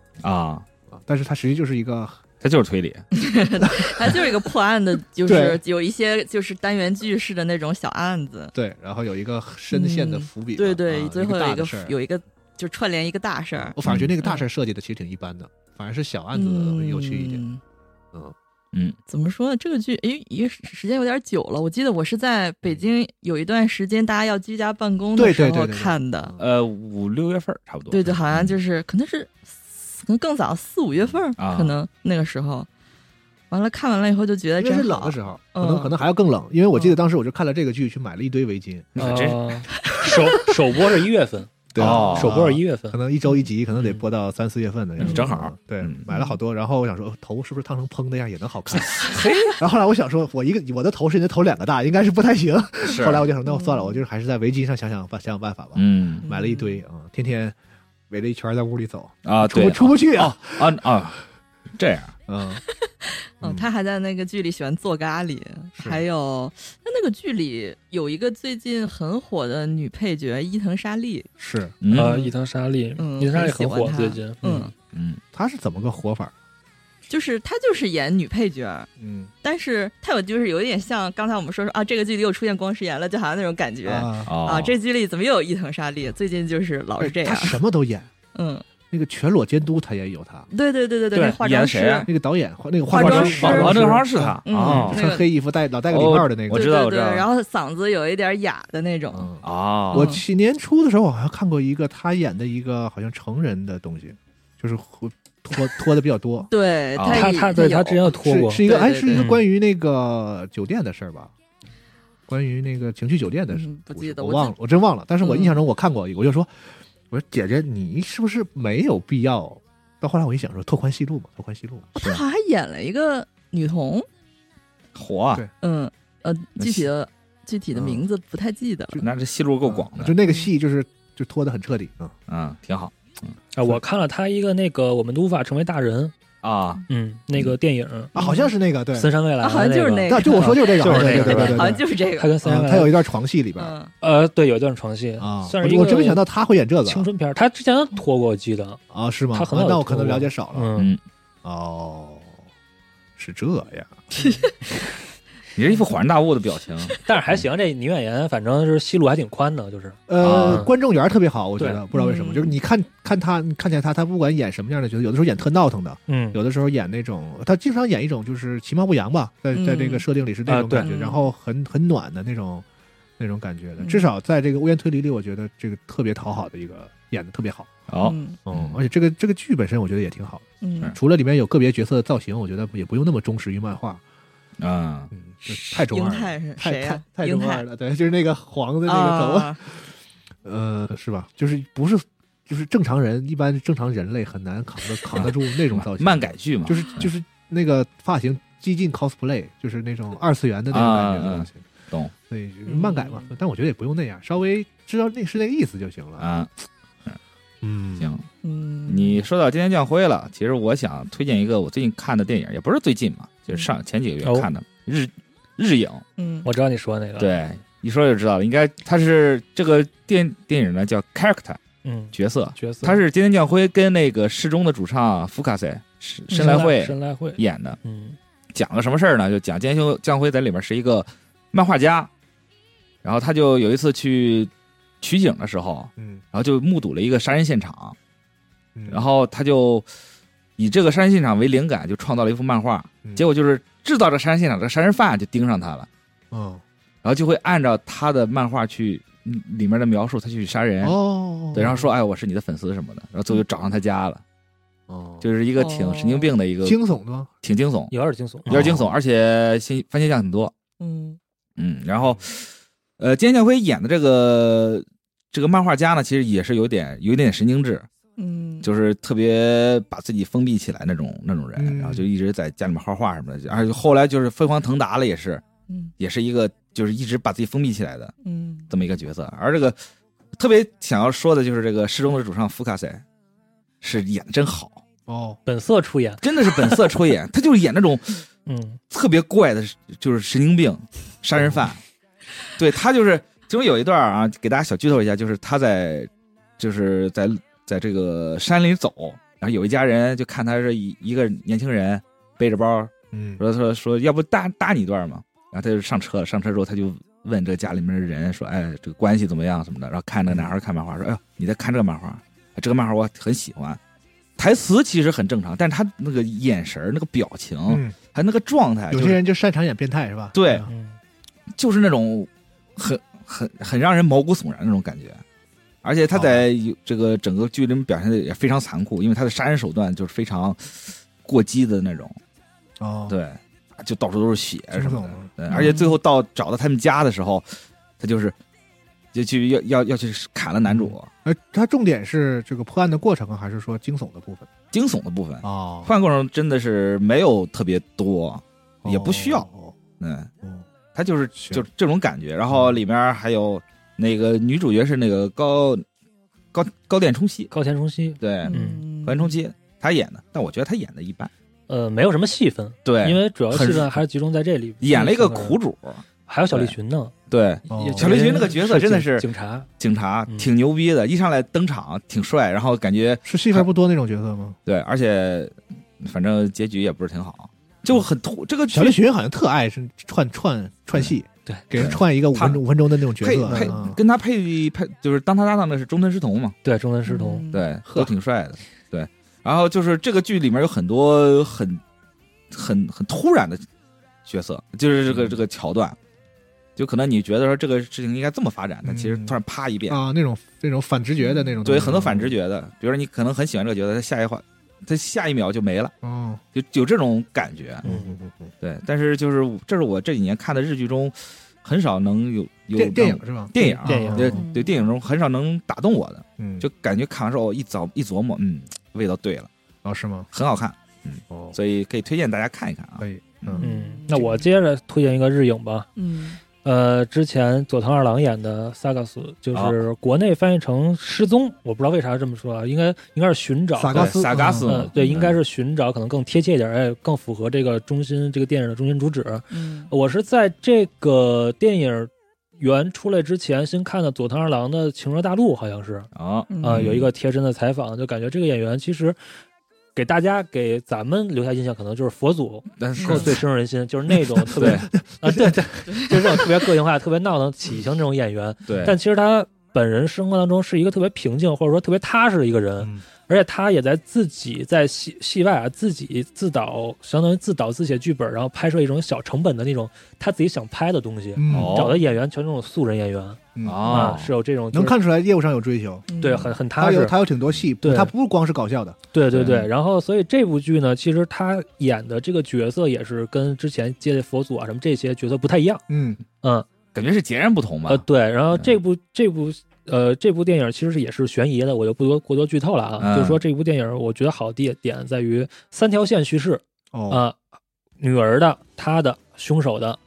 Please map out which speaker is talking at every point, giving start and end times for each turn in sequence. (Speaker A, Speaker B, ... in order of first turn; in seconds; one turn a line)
Speaker A: 0.2-0.6
Speaker B: 0.9-2.2
Speaker A: 2.4-3.0
Speaker C: 3.2-8.5
Speaker B: 3.8-4.2
Speaker B: 5.2-5.6
Speaker B: 8.5-12.0
Speaker C: 9.7-14.4
Speaker B: 13.7-17.4
Speaker A: 13.8-14.1
Speaker C: 16.3-17.6
Speaker C: 19.1-26.3
Speaker B: 25.1-26.5
Speaker A: 26.4-28.6
Speaker C: 27.9-32.7
Speaker A: 31.4-31.8
Speaker C: 33.5-35.9
Speaker B: 34.6-39.0
Speaker A: 38.9-39.6
Speaker D: 39.0-43.0
Speaker C: 39.8-40.5
Speaker B: 41.7-57.5
Speaker A: 41.8-42.4
Speaker A: 45.0-46.0
Speaker C: 46.1-46.3
Speaker A: 48.7-49.5
Speaker A: 52.9-53.3
Speaker C: 53.5-54.0
Speaker A: 55.7-56.2
Speaker C: 56.2-56.8
Speaker B: 58.1-60.8
Speaker A: 59.2-61.2
Speaker A: 61.8-62.1
Speaker B: 62.3-62.6
Speaker B: 63.4-63.7
Speaker C: 63.4-71.3
Speaker B: 71.4-71.7
Speaker A: 71.8-72.2
Speaker D: 71.9-74.4
Speaker C: 72.0-72.3
Speaker C: 73.0-74.7
Speaker B: 74.4-74.7
Speaker A: 74.9-75.2
Speaker B: 75.3-76.3
Speaker C: 77.1-78.9
Speaker B: 79.0-79.3
Speaker C: 79.4-87.6
Speaker B: 83.8-84.3
Speaker A: 84.2-84.8
Speaker B: 87.0-88.1
Speaker C: 88.3-88.7
Speaker B: 88.9-90.5
Speaker C: 90.5-92.1
Speaker D: 91.1-91.4
Speaker A: 91.4-92.1
Speaker B: 92.0-96.7
Speaker C: 92.9-93.9
Speaker D: 93.0-93.9
Speaker A: 93.0-95.0
Speaker C: 94.4-95.2
Speaker A: 95.9-97.3
Speaker C: 96.5-99.3
Speaker B: 99.1-106.5
Speaker A: 99.4-100.1
Speaker C: 99.9-100.2
Speaker C: 106.5-109.3
Speaker A: 107.0-107.4
Speaker D: 107.1-109.4
Speaker B: 108.1-111.3
Speaker B: 112.3-121.9
Speaker C: 113.5-114.5
Speaker C: 115.2-115.6
Speaker C: 121.9-124.0
Speaker A: 124.9-125.4
Speaker C: 125.6-129.0
Speaker A: 126.6-126.9
Speaker B: 127.7-128.1
Speaker A: 129.0-130.2
Speaker B: 129.6-132.1
Speaker C: 130.2-130.5
Speaker A: 132.3-133.3
Speaker D: 133.5-136.1
Speaker A: 136.4-136.8
Speaker D: 136.9-138.1
Speaker B: 138.1-139.1
Speaker C: 138.2-138.5
Speaker D: 138.9-142.9
Speaker C: 139.4-142.4
Speaker B: 140.1-141.8
Speaker B: 142.4-143.7
Speaker C: 143.6-143.9
Speaker D: 144.0-146.2
Speaker B: 145.2-147.1
Speaker D: 146.8-148.8
Speaker B: 148.9-150.7
Speaker D: 149.3-150.9
Speaker B: 151.4-152.3
Speaker B: 153.2-154.1
Speaker A: 155.6-157.0
Speaker D: 157.1-160.7
Speaker B: 160.1-172.6
Speaker A: 160.2-160.6
Speaker C: 161.9-162.6
Speaker D: 166.1-166.4
Speaker C: 169.5-170.0
Speaker D: 170.5-170.9
Speaker C: 170.8-171.3
Speaker B: 173.2-177.7
Speaker C: 173.8-174.1
Speaker A: 177.9-178.8
Speaker C: 178.0-178.4
Speaker B: 178.4-184.0
Speaker C: 180.6-180.9
Speaker A: 184.6-185.1
Speaker B: 185.1-189.9
Speaker C: 185.5-187.6
Speaker C: 188.8-189.6
Speaker B: 190.4-201.6
Speaker A: 195.1-197.1
Speaker A: 200.7-202.1
Speaker B: 202.3-206.3
Speaker C: 202.7-203.3
Speaker A: 206.2-206.5
Speaker B: 207.6-208.1
Speaker A: 208.0-208.3
Speaker C: 208.4-209.2
Speaker A: 208.9-216.0
Speaker C: 216.2-216.5
Speaker D: 216.4-217.3
Speaker A: 217.2-221.6
Speaker D: 221.8-223.0
Speaker A: 222.1-227.8
Speaker D: 226.3-228.2
Speaker A: 228.5-232.1
Speaker A: 233.0-237.9
Speaker B: 236.0-236.2
Speaker B: 238.8-239.0
Speaker A: 238.9-239.8
Speaker A: 240.6-245.9
Speaker B: 246.3-246.6
Speaker A: 247.0-251.0
Speaker B: 250.8-251.9
Speaker A: 251.5-254.2
Speaker B: 254.9-255.2
Speaker A: 255.2-256.8
Speaker C: 255.6-256.3
Speaker B: 256.6-257.3
Speaker A: 257.4-257.9
Speaker D: 257.9-258.5
Speaker B: 258.5-258.9
Speaker A: 258.5-260.5
Speaker C: 260.8-261.2
Speaker A: 261.6-267.9
Speaker C: 268.2-268.7
Speaker A: 268.6-275.4
Speaker B: 271.6-272.1
Speaker A: 276.0-278.1
Speaker C: 278.2-278.7
Speaker A: 278.7-279.8
Speaker A: 280.4-283.0
Speaker A: 283.8-284.8
Speaker B: 285.1-285.4
Speaker D: 285.4-286.2
Speaker A: 286.2-288.2
Speaker D: 288.4-288.8
Speaker A: 288.9-291.8
Speaker A: 292.6-313.8
Speaker B: 303.1-303.4
Speaker B: 310.3-310.5
Speaker A: 314.4-319.2
Speaker B: 317.7-317.9
Speaker B: 318.9-320.7
Speaker A: 320.3-320.7
Speaker D: 320.7-321.0
Speaker A: 321.6-325.2
Speaker A: 325.8-332.2
Speaker B: 326.1-326.5
Speaker B: 332.8-333.1
Speaker A: 333.1-337.4
Speaker B: 334.7-335.8
Speaker C: 335.5-335.9
Speaker A: 338.0-338.3
Speaker A: 339.1-341.1
Speaker B: 340.6-344.5
Speaker A: 344.7-349.5
Speaker B: 345.4-345.9
Speaker B: 348.8-349.8
Speaker A: 350.0-350.3
Speaker A: 350.9-355.8
Speaker B: 351.4-351.6
Speaker B: 352.5-352.8
Speaker A: 356.5-357.5
Speaker D: 357.5-358.8
Speaker A: 358.2-361.3
Speaker C: 358.4-359.4
Speaker D: 361.7-365.6
Speaker A: 362.8-363.9
Speaker A: 364.8-366.7
Speaker D: 366.3-367.1
Speaker A: 367.3-369.3
Speaker D: 367.7-369.7
Speaker B: 367.7-368.3
Speaker A: 369.8-373.6
Speaker B: 373.2-374.6
Speaker A: 374.6-379.0
Speaker B: 378.7-384.0
Speaker A: 381.8-382.6
Speaker A: 383.2-386.6
Speaker D: 386.6-387.4
Speaker C: 387.1-387.6
Speaker A: 387.5-391.8
Speaker B: 387.9-388.1
Speaker A: 392.5-393.6
Speaker A: 394.2-396.0
Speaker B: 395.1-395.4
Speaker A: 396.8-400.0
Speaker B: 398.8-402.4
Speaker C: 401.2-401.6
Speaker A: 401.6-405.9
Speaker B: 406.0-406.4
Speaker A: 406.5-407.8
Speaker B: 407.8-408.5
Speaker D: 407.8-408.1
Speaker A: 408.6-419.5
Speaker B: 412.7-414.4
Speaker D: 413.9-414.4
Speaker C: 414.4-414.8
Speaker B: 416.4-416.7
Speaker B: 419.8-420.3
Speaker A: 420.3-423.6
Speaker B: 421.3-421.6
Speaker B: 423.0-423.6
Speaker C: 423.6-424.4
Speaker D: 423.6-425.9
Speaker C: 425.9-426.4
Speaker D: 426.6-446.1
Speaker B: 433.8-434.7
Speaker A: 433.9-435.4
Speaker C: 435.0-435.3
Speaker C: 439.5-439.9
Speaker A: 446.1-447.1
Speaker C: 446.5-446.9
Speaker D: 446.6-449.2
Speaker D: 449.9-475.0
Speaker A: 452.8-453.4
Speaker B: 454.1-456.4
Speaker A: 454.6-454.9
Speaker C: 455.9-456.1
Speaker A: 458.7-458.9
Speaker B: 462.8-463.0
Speaker B: 471.3-471.9
Speaker A: 471.5-472.0
Speaker B: 473.5-474.2
Speaker A: 473.6-474.3
Speaker B: 474.7-476.1
Speaker C: 476.1-476.6
Speaker D: 476.2-477.1
Speaker B: 476.8-479.0
Speaker D: 477.8-478.1
Speaker D: 479.1-485.8
Speaker A: 479.3-479.7
Speaker B: 485.9-486.2
Speaker D: 486.4-486.7
Speaker A: 486.9-488.8
Speaker D: 487.9-497.4
Speaker A: 493.0-493.4
Speaker B: 496.9-497.2
Speaker D: 498.0-500.0